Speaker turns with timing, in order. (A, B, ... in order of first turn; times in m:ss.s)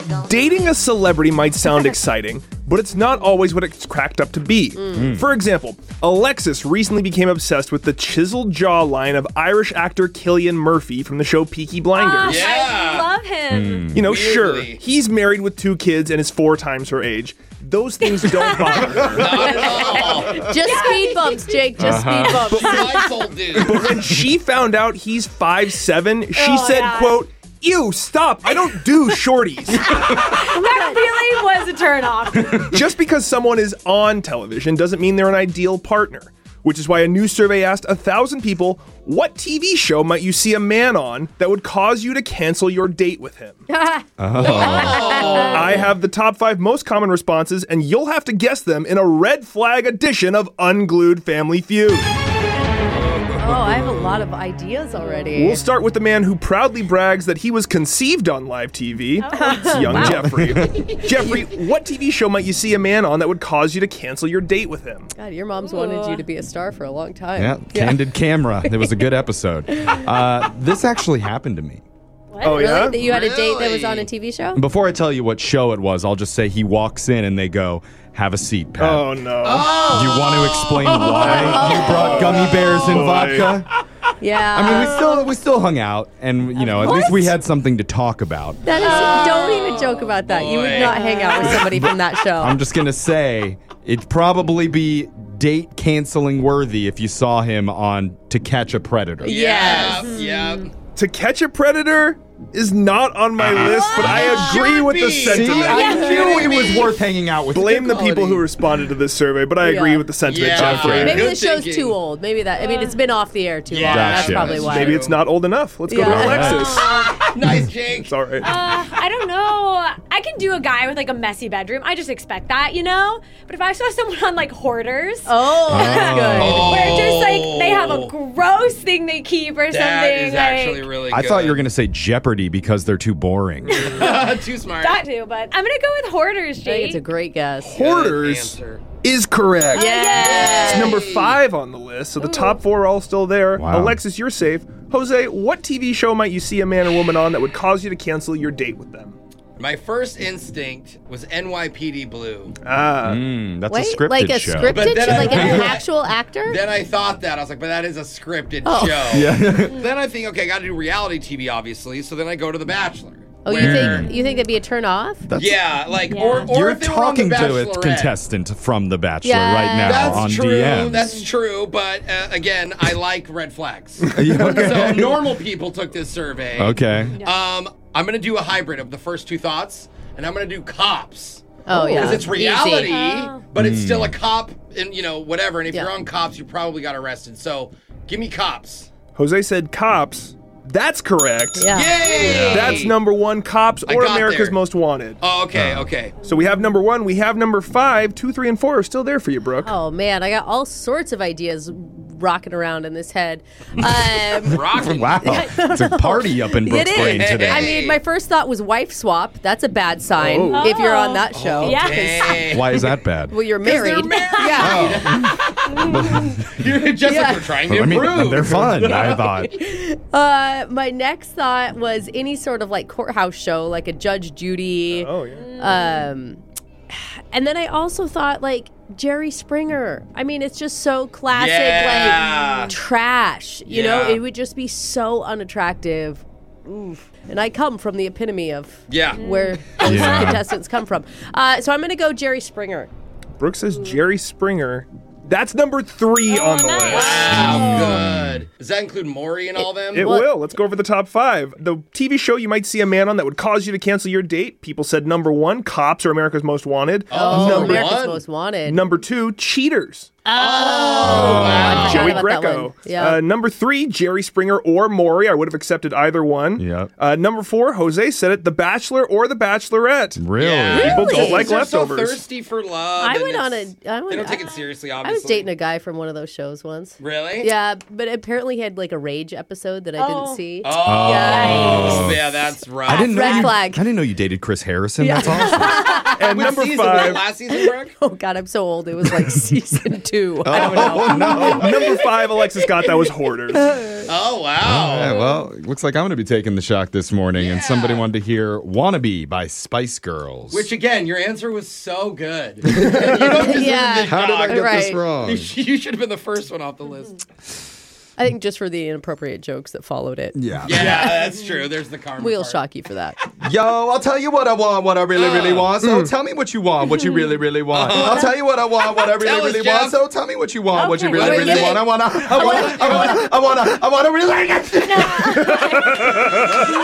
0:00.1-0:12.5 A
0:04.9-0:05.3 B
0:11.9-0:13.9 C
0:12.2-0:13.1 D
0:13.5-0:14.2 B
0:13.9-0:19.5 A
0:14.0-0:14.8 D
0:18.2-0:22.0 C
0:19.1-0:20.5 D
0:19.4-0:23.1 E
0:21.8-0:22.7 B
0:22.5-0:22.8 A
0:22.5-0:23.8 D
0:23.5-0:30.0 A
0:23.8-0:24.1 B
0:26.3-0:27.3 C
0:29.9-0:32.7 C
0:30.5-0:31.0 E
0:32.6-0:43.6 A
0:43.7-0:45.8 E
0:44.2-0:45.0 B
0:44.4-0:45.9 D
0:44.6-0:45.4 C
0:45.1-0:52.1 A
0:52.8-0:54.2 D
0:53.4-0:55.6 E
0:55.3-1:05.1 A
0:59.2-1:00.2 C
0:59.3-1:00.0 E
0:59.8-1:00.9 B
1:05.2-1:08.1 E
1:05.6-1:06.2 C
1:07.4-1:11.8 B
1:08.6-1:09.1 E
1:09.7-1:10.1 E
1:12.3-1:12.8 C
1:12.4-1:13.0 A
1:12.5-1:14.6 E
1:12.9-1:14.1 D
1:14.5-1:19.1 B
1:18.8-1:19.9 A
1:19.4-1:22.7 D
1:19.8-1:23.7 B
1:21.3-1:22.2 E
1:21.4-1:22.0 C
1:22.0-1:23.6 A
1:24.2-1:25.3 E
1:24.5-1:28.9 B
1:26.6-1:27.4 C
1:28.6-1:32.6 E
1:28.7-1:31.0 D
1:28.7-1:29.4 C
1:30.6-1:31.6 C
1:31.4-1:39.4 B
1:39.2-1:40.7 E
1:39.2-1:40.7 D
1:39.8-1:40.2 C
1:40.9-1:46.6 A
1:43.4-1:44.3 B
1:43.6-1:44.6 C
1:43.9-1:45.5 D
1:45.2-1:48.4 B
1:45.5-1:47.0 C
1:45.7-1:46.5 E
1:47.5-1:51.3 A
1:49.6-1:50.1 E
1:50.2-1:52.0 D
1:50.5-1:51.3 B
1:50.9-1:55.1 E
1:52.6-1:53.0 C
1:53.7-1:55.2 D
1:53.8-1:54.6 B
1:54.5-1:58.5 A
1:55.9-1:56.9 E
1:56.0-1:56.8 B
1:56.5-1:57.2 C
1:56.7-1:58.1 D
1:58.4-2:10.9 C
2:05.3-2:07.0 E
2:05.7-2:06.8 B
2:06.4-2:08.1 D
2:09.7-2:11.7 D
2:11.1-2:13.8 B
2:13.7-2:17.0 C
2:13.8-2:15.0 D
2:16.6-2:17.8 E
2:17.6-2:20.0 A
2:17.6-2:18.9 D
2:19.7-2:21.0 C
2:19.7-2:21.0 E
2:20.1-2:21.4 D
2:20.6-2:29.2 A
2:23.6-2:24.0 B
2:29.6-2:32.6 D
2:32.6-2:33.2 A
2:33.0-2:35.7 B
2:33.7-2:36.6 E
2:34.6-2:35.9 D
2:36.4-2:44.1 D
2:38.6-2:39.3 E
2:39.1-2:39.8 B
2:43.4-2:45.3 E
2:43.6-2:44.1 B
2:44.1-2:44.4 C
2:45.3-2:45.6 B
2:45.4-2:48.2 D
2:46.1-2:46.5 C
2:46.4-2:51.0 B
2:49.2-2:50.3 E
2:49.8-3:09.0 D
2:50.9-2:51.3 C
2:54.1-2:55.2 B
2:56.6-2:57.1 B
2:57.1-2:57.4 C
3:01.6-3:03.0 E
3:02.8-3:03.4 C
3:03.6-3:04.2 B
3:09.1-3:15.2 A
3:11.6-3:12.1 E
3:11.7-3:12.9 D
3:12.2-3:12.9 B
3:13.8-3:14.6 D
3:15.2-3:16.2 D
3:15.5-3:15.9 B
3:16.2-3:19.7 A
3:19.6-3:35.2 E
3:23.8-3:27.8 B
3:24.4-3:25.3 D
3:27.1-3:28.0 D
3:30.1-3:30.7 A
3:30.5-3:32.4 C
3:31.3-3:32.8 D
3:32.5-3:33.4 B
3:33.6-3:39.3 D
3:34.0-3:34.8 C
3:34.6-3:36.6 B
3:35.7-3:36.0 C
3:37.0-3:37.7 E
3:37.7-3:39.6 B
3:39.0-4:02.9 E
3:44.9-3:45.6 A
3:45.3-3:46.0 C
3:51.3-3:52.7 D
3:52.2-3:52.7 C
3:53.6-3:54.2 D
3:58.9-3:59.2 D
3:59.2-4:00.4 C
3:59.8-4:00.4 B
4:03.4-4:07.6 A
4:06.3-4:08.0 C
4:06.9-4:10.1 D
4:06.9-4:07.8 E
4:07.2-4:08.4 B
4:09.6-4:10.3 E
4:09.9-4:18.0 A
4:17.1-4:18.2 D
4:17.1-4:18.8 E
4:18.6-4:20.2 A
4:20.3-4:23.2 E
4:20.3-4:22.2 D
4:20.5-4:21.3 C
4:21.0-4:22.0 B
4:21.0-4:32.2 A
4:26.6-4:26.9 B
4:30.2-4:31.1 B
4:30.3-4:35.5 D
4:30.7-4:31.5 E
4:33.0-4:42.1 E
4:37.0-4:37.5 D
4:40.0-4:40.4 C
4:40.6-4:43.5 D
4:40.8-4:42.2 B
4:41.1-4:42.0 C
4:42.8-4:43.9 E
4:42.8-4:45.9 B
4:45.0-4:46.6 E
4:45.8-4:47.9 D
4:46.1-4:47.2 A
4:47.5-4:51.9 E
4:50.4-4:51.9 B
4:50.5-4:51.4 D
4:51.2-4:53.7 A
4:52.6-4:53.1 D
4:53.5-4:54.1 E
4:54.0-4:55.2 D
4:54.6-5:00.7 B
4:57.4-4:58.1 D
5:00.5-5:07.2 D
5:03.3-5:05.0 E
5:04.0-5:05.5 B
5:08.2-5:11.5 E
5:10.3-5:11.1 B
5:10.6-5:12.6 D
5:12.2-5:13.2 E
5:13.4-5:26.2 B
5:15.1-5:15.7 D
5:15.8-5:16.1 A
5:16.8-5:17.4 C
5:17.7-5:20.0 D
5:17.9-5:18.2 E
5:20.7-5:21.8 C
5:21.1-5:23.3 D
5:24.8-5:26.0 C
5:25.7-5:26.6 A